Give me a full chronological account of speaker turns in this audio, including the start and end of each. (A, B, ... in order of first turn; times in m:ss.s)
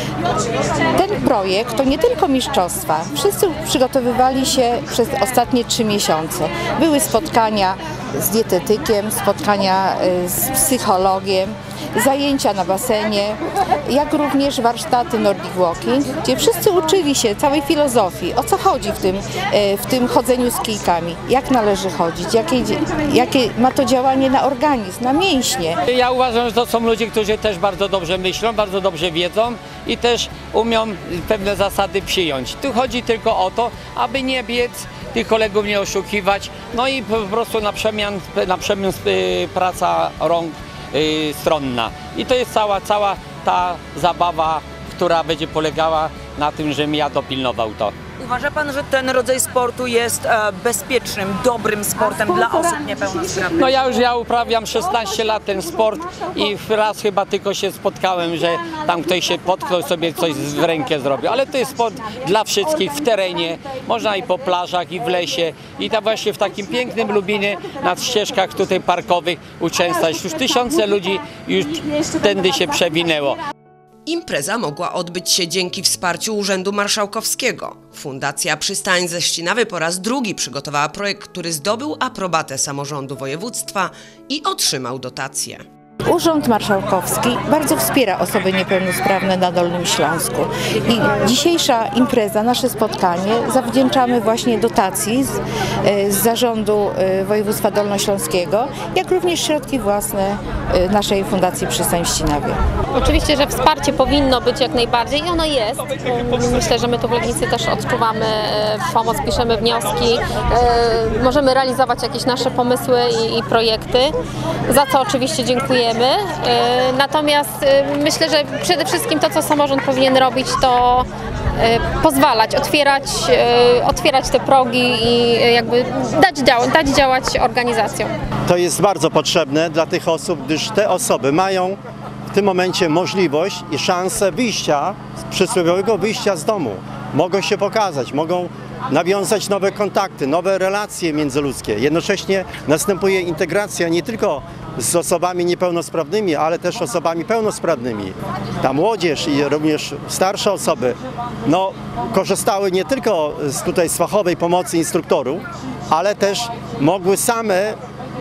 0:01.0-0:25.8 A
0:25.9-0:47.9 B
0:48.2-0:53.7 C
0:53.6-1:13.4 B
1:14.1-1:25.6 D
1:26.1-1:42.6 A
1:43.0-1:54.1 E
1:54.7-2:01.1 E
2:01.6-2:08.1 E
2:08.5-2:11.8 F
2:12.3-2:37.8 F